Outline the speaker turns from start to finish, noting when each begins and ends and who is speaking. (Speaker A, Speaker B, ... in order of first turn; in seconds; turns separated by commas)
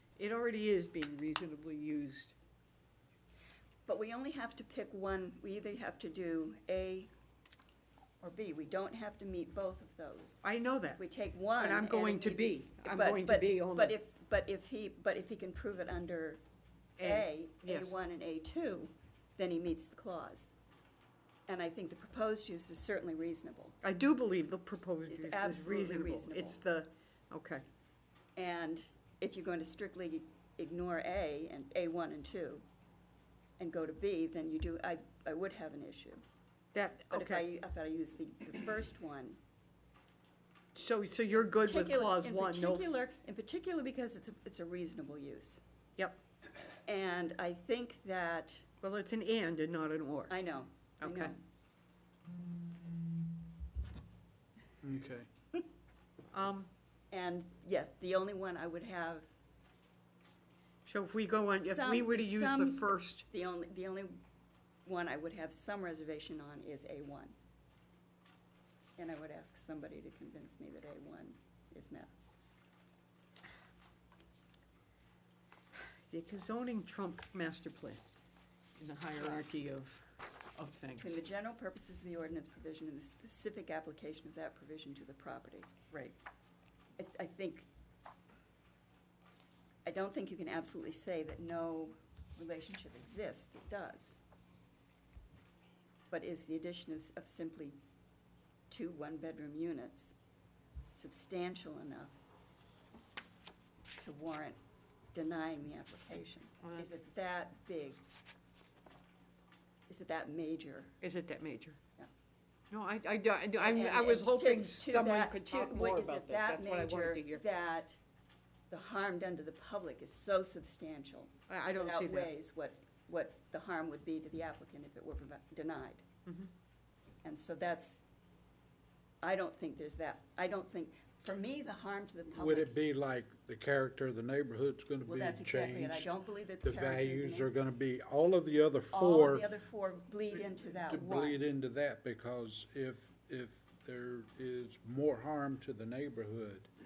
Speaker A: 0.2-2.4, Speaker B: 3.9-7.1, Speaker B: 8.2-10.4, Speaker A: 10.4-11.0, Speaker B: 11.0-16.4, Speaker A: 11.6-13.9, Speaker A: 17.0-17.9, Speaker B: 17.0-20.5, Speaker B: 21.5-23.8, Speaker A: 23.8-27.6, Speaker B: 25.1-26.6, Speaker B: 28.4-32.6, Speaker B: 33.6-36.2, Speaker A: 36.7-37.5, Speaker B: 37.1-39.4, Speaker A: 40.8-43.0, Speaker B: 41.6-45.6, Speaker B: 46.9-48.7, Speaker A: 48.8-50.3, Speaker B: 50.3-51.4, Speaker A: 51.0-51.3, Speaker C: 54.8-55.3, Speaker A: 56.3-56.7, Speaker B: 57.1-59.3, Speaker A: 60.9-63.3, Speaker B: 61.6-64.2, Speaker B: 64.8-67.3, Speaker B: 69.0-72.1, Speaker A: 75.8-78.0, Speaker A: 78.8-81.2, Speaker B: 81.0-85.7, Speaker B: 87.0-87.7, Speaker B: 89.8-94.2, Speaker B: 96.1-97.8, Speaker B: 98.7-100.2, Speaker B: 100.9-102.2, Speaker B: 104.0-104.6, Speaker B: 105.1-108.0, Speaker A: 106.7-106.9, Speaker B: 109.9-110.9, Speaker A: 111.0-111.8, Speaker A: 112.7-117.4, Speaker B: 113.6-118.0, Speaker B: 118.7-126.0, Speaker A: 121.5-122.3, Speaker B: 127.2-128.0, Speaker B: 129.2-132.8, Speaker C: 132.4-139.5, Speaker B: 135.1-137.5, Speaker B: 138.9-141.4, Speaker C: 140.3-146.7